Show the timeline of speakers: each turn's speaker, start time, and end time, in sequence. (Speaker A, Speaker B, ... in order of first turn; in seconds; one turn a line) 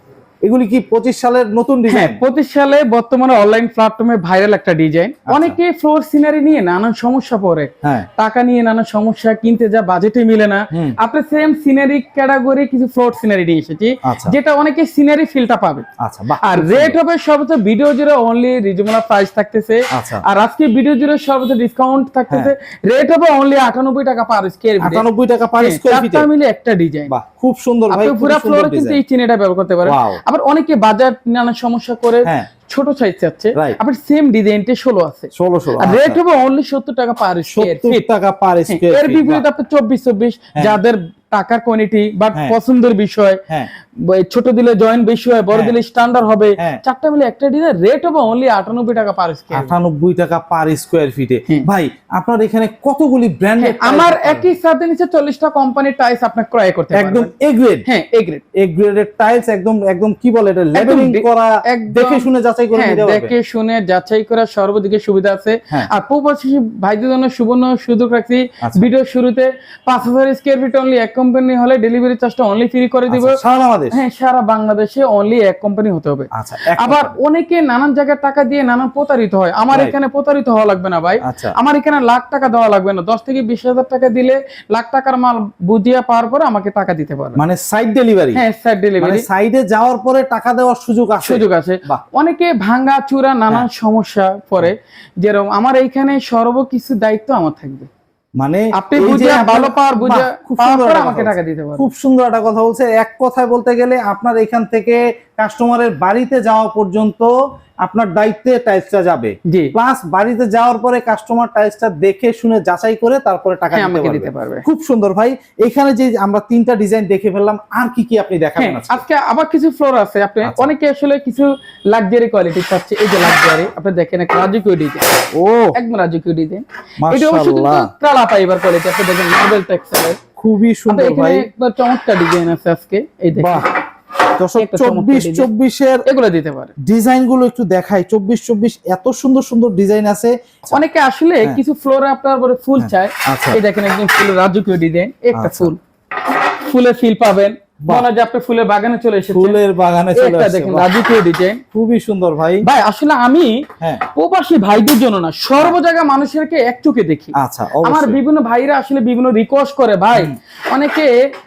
Speaker A: 0.4-2.2
Speaker B: 1.9-15.9
Speaker A: 5.3-5.6
Speaker A: 10.7-11.0
Speaker A: 14.0-14.4
Speaker A: 16.0-17.0
Speaker B: 16.4-25.1
Speaker A: 19.9-20.2
Speaker A: 24.8-26.3
Speaker B: 25.6-27.1
Speaker A: 27.1-29.0
Speaker B: 27.9-38.0
Speaker A: 29.9-30.2
Speaker A: 33.5-33.8
Speaker A: 35.3-36.2
Speaker A: 37.5-39.5
Speaker B: 38.7-49.7
Speaker A: 49.5-54.5
Speaker B: 53.6-57.3
Speaker A: 56.9-57.9
Speaker B: 57.9-58.4
Speaker A: 58.5-63.3
Speaker B: 60.7-73.4
Speaker A: 73.1-74.0
Speaker B: 73.9-87.4
Speaker A: 76.3-77.2
Speaker A: 81.2-81.5
Speaker A: 87.4-88.4
Speaker B: 88.3-89.3
Speaker A: 89.0-92.0
Speaker B: 91.2-97.9
Speaker A: 98.4-119.0
Speaker B: 98.7-101.9
Speaker B: 109.5-109.7
Speaker B: 113.7-114.7
Speaker B: 118.6-125.2
Speaker A: 120.4-120.7
Speaker A: 125.3-125.8
Speaker B: 125.8-130.2
Speaker A: 127.0-127.9
Speaker A: 130.4-131.5
Speaker B: 130.9-133.7
Speaker A: 133.4-133.7
Speaker A: 134.3-136.1
Speaker B: 134.6-135.5
Speaker B: 136.1-136.7
Speaker A: 136.8-140.8
Speaker B: 140.7-149.6
Speaker A: 142.8-143.6
Speaker A: 145.3-145.7
Speaker A: 149.3-150.9
Speaker B: 150.1-151.6
Speaker A: 151.7-152.7
Speaker B: 152.6-161.3
Speaker A: 157.4-158.2